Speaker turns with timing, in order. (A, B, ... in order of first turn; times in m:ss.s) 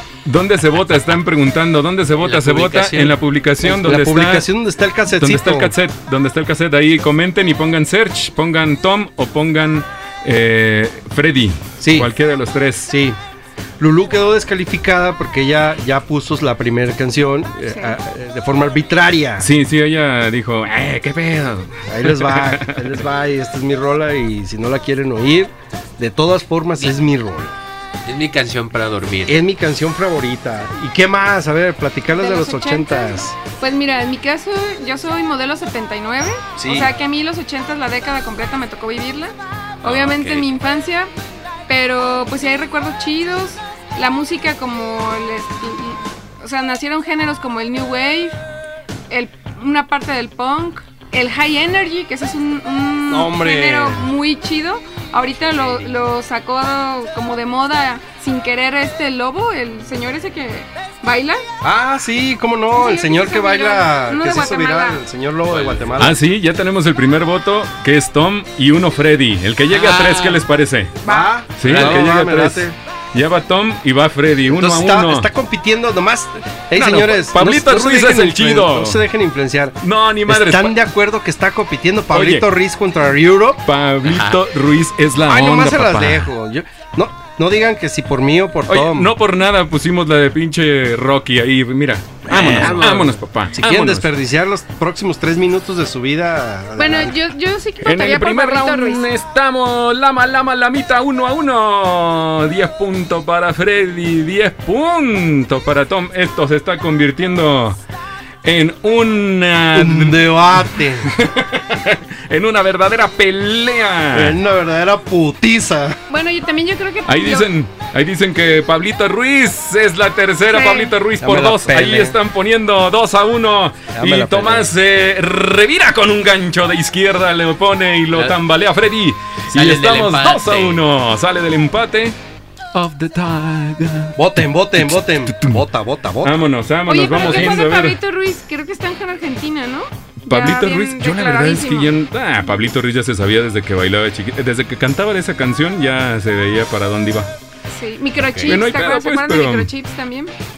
0:00.2-0:04.5 A
0:02.2-0:03.2 B
0:03.6-0:05.8 C
0:05.2-0:12.9 A
0:11.8-0:12.1 C
0:12.9-0:13.2 C
0:13.8-0:19.5 C
0:17.7-0:18.0 D
0:19.4-0:22.9 A
0:21.9-0:27.6 C
0:28.1-0:29.4 B
0:29.3-0:33.4 C
0:32.1-0:41.1 D
0:36.6-0:36.9 C
0:39.8-0:40.5 B
0:41.7-0:48.4 D
0:49.1-1:01.4 D
0:53.1-0:54.1 C
0:55.6-0:55.9 B
1:01.6-1:06.2 C
1:02.7-1:05.0 D
1:05.5-1:06.1 B
1:06.0-1:11.0 A
1:09.7-1:10.4 B
1:11.0-1:11.3 D
1:11.0-1:12.8 C
1:11.6-1:15.3 A
1:11.6-1:12.1 B
1:14.5-1:23.6 C
1:16.8-1:19.0 A
1:19.8-1:20.8 A
1:22.1-1:22.5 A
1:23.6-1:26.3 A
1:24.0-1:24.4 B
1:25.2-1:29.1 C
1:28.7-1:34.1 A
1:32.2-1:37.2 C
1:32.3-1:33.2 B
1:36.8-1:39.1 D
1:37.8-1:47.8 A
1:48.4-1:54.4 A
1:49.7-1:51.1 C
1:54.1-1:56.0 C
1:56.1-1:57.5 D
1:57.1-2:12.2 A
2:00.5-2:00.9 D
2:01.2-2:02.2 C
2:03.9-2:04.7 C
2:08.1-2:08.4 B
2:09.5-2:10.8 B
2:12.7-2:14.2 A
2:14.2-2:16.4 C
2:14.8-2:15.6 A
2:16.2-2:18.0 A
2:16.9-2:21.9 D
2:20.2-2:27.3 A
2:27.7-2:30.3 D
2:28.4-2:29.7 A